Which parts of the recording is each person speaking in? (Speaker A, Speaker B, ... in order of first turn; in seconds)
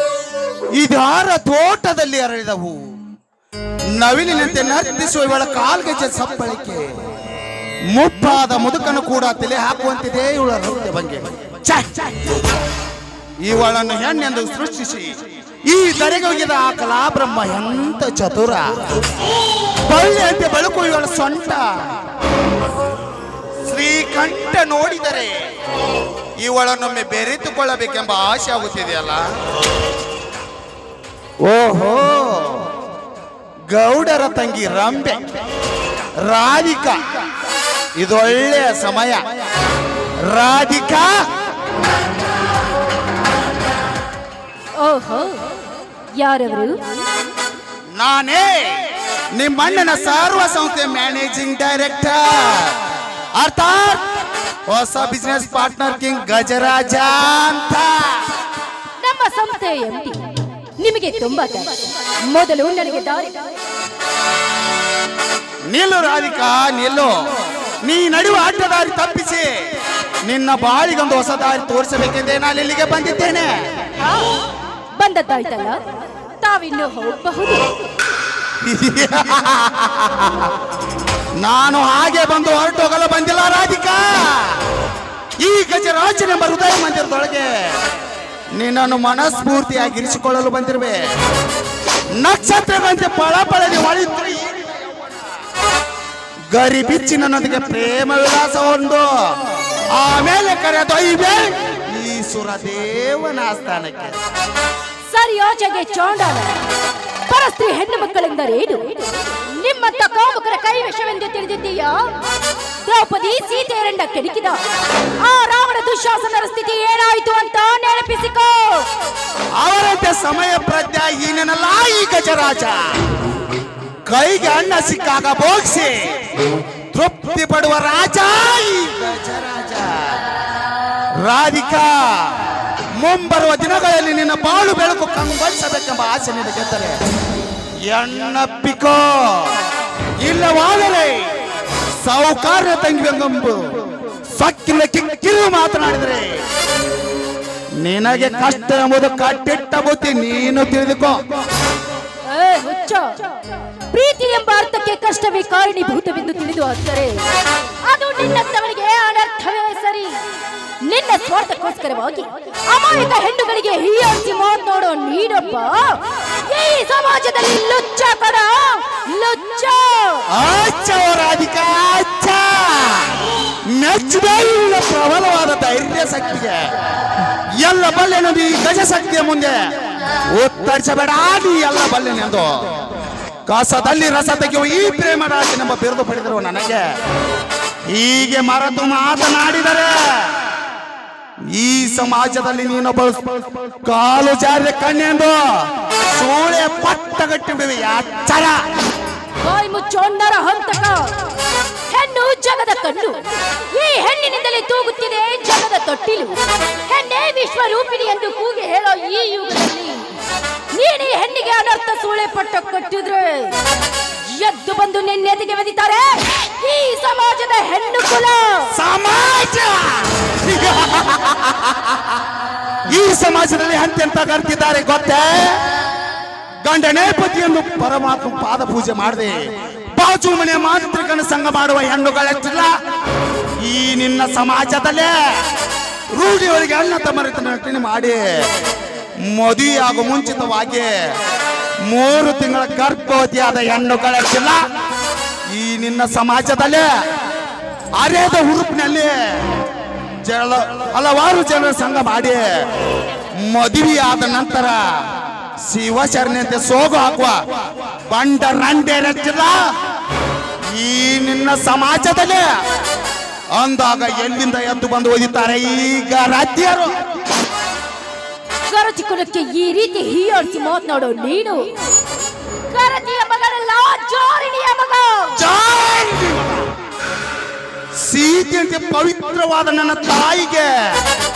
Speaker A: 0.8-2.9, 3.9-6.9, 7.9-12.2, 13.4-15.1, 15.6-18.9, 19.8-21.7, 23.6-25.3, 26.4-29.2, 31.4-32.7, 33.7-35.2, 36.2-37.0, 38.0-39.2, 40.2-41.1, 47.9-52.8, 53.4-54.1, 54.7-58.2, 65.7-67.1, 67.8-69.5, 70.3-73.5, 78.6-80.5, 81.4-84.6, 85.4-87.5, 88.5-91.0, 92.2-94.9, 96.5-99.1, 99.9-104.2, 119.6-122.9, 124.0-125.9, 126.9-130.2, 131.2-137.0, 137.9-139.6, 140.2-141.2, 142.0-143.7, 144.3-146.3, 147.8-151.2, 170.3-176.6, 177.6-179.7, 180.3-182.7, 183.4-186.8, 187.8-190.4, 191.5-198.6, 218.7-222.0, 222.9-225.6, 226.6-229.4, 229.9-232.7, 233.6-235.1, 236.1-238.2, 239.2-240.9, 241.8-244.6, 245.5-246.9, 247.9-249.1, 250.2-252.5, 253.3-254.8, 255.6-257.4, 258.1-259.6, 260.7-262.5, 263.6-266.9, 275.4-276.6, 278.0-280.9
Speaker B: 44.8-45.4, 46.2-47.0, 59.0-60.2, 60.8-63.5, 75.0-77.8, 105.1-106.5, 107.3-112.0, 112.8-114.6, 115.2-118.8, 152.3-153.3, 153.9-157.2, 157.8-160.2, 160.8-170.2, 199.4-201.1, 201.9-210.1, 210.7-213.6, 214.2-218.7, 268.7-271.6, 272.7-275.4